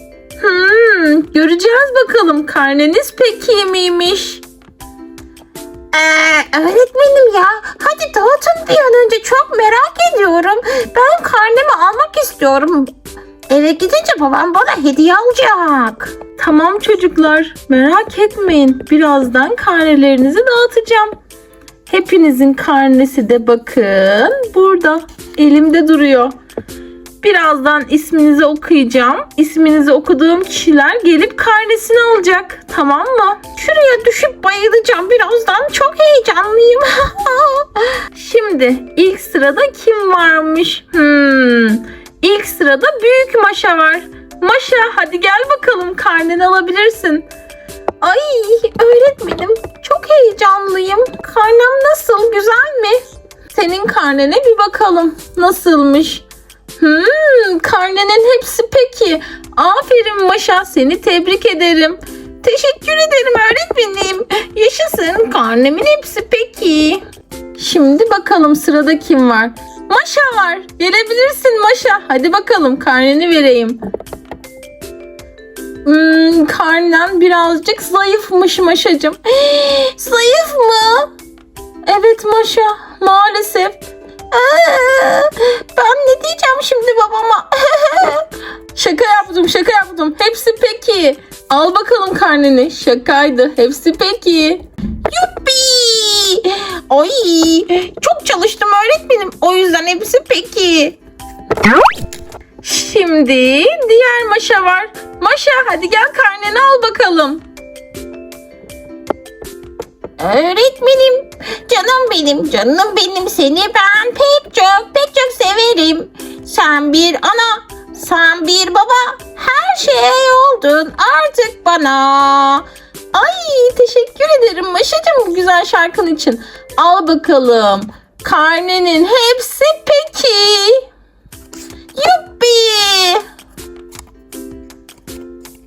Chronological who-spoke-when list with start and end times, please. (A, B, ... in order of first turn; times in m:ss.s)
0:00.4-0:04.4 A
0:05.9-0:12.9 A
0:13.5-0:21.1 A
0:21.9-0:26.3 A
0:27.2-0:47.2 A
0:48.0-0:56.2 A
0:56.8-1:07.0 A
1:07.6-1:13.8 A
1:15.8-1:21.1 A
1:21.8-1:41.0 A
1:42.6-1:47.4 A
1:50.2-2:10.8 A
2:11.9-2:13.2 A